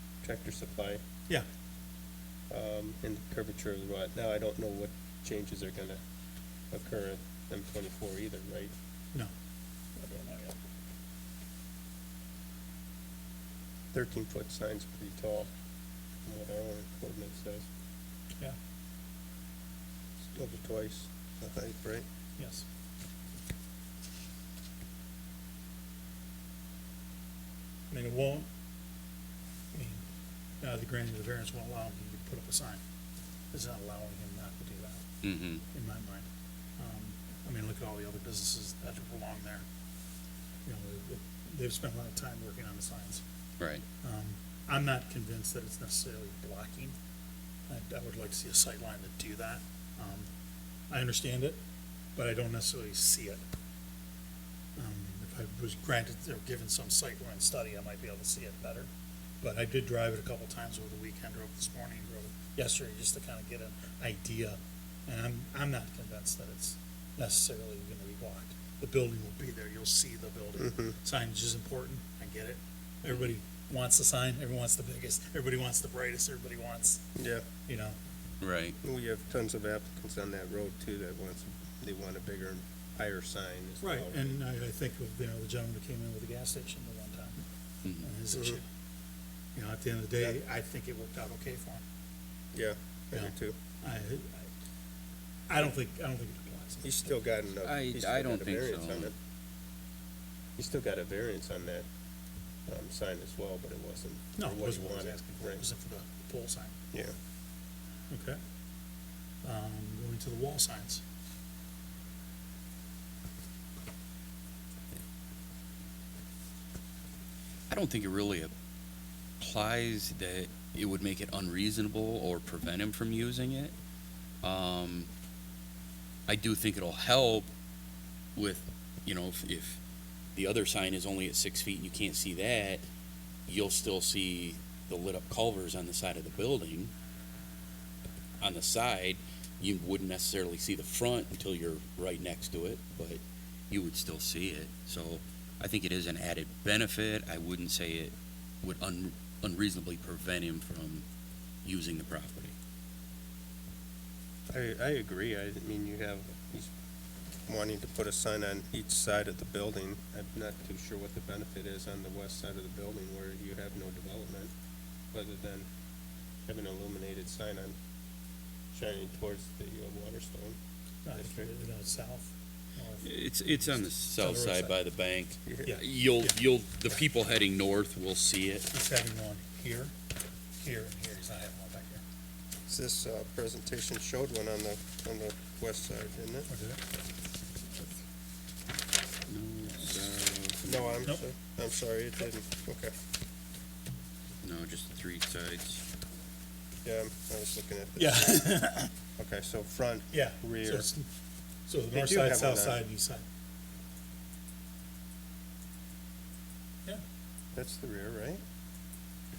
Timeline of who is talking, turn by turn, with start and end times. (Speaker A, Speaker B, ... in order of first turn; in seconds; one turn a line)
Speaker A: 0.2-1.0
Speaker A: 2.5-6.0
Speaker A: 6.7-8.7
Speaker B: 10.0-10.6
Speaker A: 13.9-15.5
Speaker A: 16.2-17.7
Speaker A: 20.3-22.1
Speaker B: 22.4-22.7
Speaker B: 27.9-28.5
Speaker B: 29.7-30.0
Speaker B: 30.6-32.8
Speaker B: 33.5-35.0
Speaker C: 35.2-35.6
Speaker B: 35.7-36.3
Speaker B: 36.8-39.6
Speaker B: 40.6-43.2
Speaker B: 44.0-47.0
Speaker B: 47.7-50.3
Speaker B: 50.9-51.6
Speaker B: 52.1-53.4
Speaker B: 54.8-58.9
Speaker B: 59.4-77.0
Speaker A: 70.6-71.0
Speaker A: 77.2-77.4
Speaker B: 77.7-78.0
Speaker C: 78.4-78.8
Speaker A: 78.8-84.4
Speaker B: 83.8-87.4
Speaker C: 87.8-88.1
Speaker B: 88.0-88.6
Speaker A: 88.3-88.6
Speaker B: 89.5-91.8
Speaker A: 92.5-93.6
Speaker B: 93.1-94.5
Speaker B: 95.5-97.1
Speaker A: 96.8-99.1
Speaker C: 97.6-99.1
Speaker A: 100.6-101.9
Speaker A: 102.7-105.6
Speaker B: 104.4-106.8
Speaker B: 108.1-108.4
Speaker B: 109.4-111.0
Speaker C: 117.7-118.5
Speaker C: 119.4-123.7
Speaker C: 124.4-125.1
Speaker C: 126.3-127.5
Speaker C: 128.3-129.8
Speaker C: 130.3-132.8
Speaker C: 133.5-136.9
Speaker C: 138.4-151.0
Speaker C: 151.6-152.5
Speaker A: 154.5-156.7
Speaker A: 157.5-164.5
Speaker A: 165.1-165.7
Speaker A: 166.5-167.8
Speaker A: 168.7-170.6
Speaker B: 171.0-174.8
Speaker A: 171.2-171.5
Speaker C: 173.0-178.7
Speaker A: 175.5-175.8
Speaker B: 175.7-176.3
Speaker B: 178.7-179.9
Speaker B: 180.6-182.0
Speaker A: 182.7-186.5
Speaker B: 186.5-186.8
Speaker C: 189.3-191.1
Speaker A: 190.6-192.9
Speaker C: 194.4-195.8
Speaker A: 196.8-198.5
Speaker B: 198.0-198.9
Speaker A: 199.2-200.9
Speaker B: 200.1-201.1
Speaker B: 201.7-203.2
Speaker A: 201.9-202.8
Speaker A: 207.5-208.4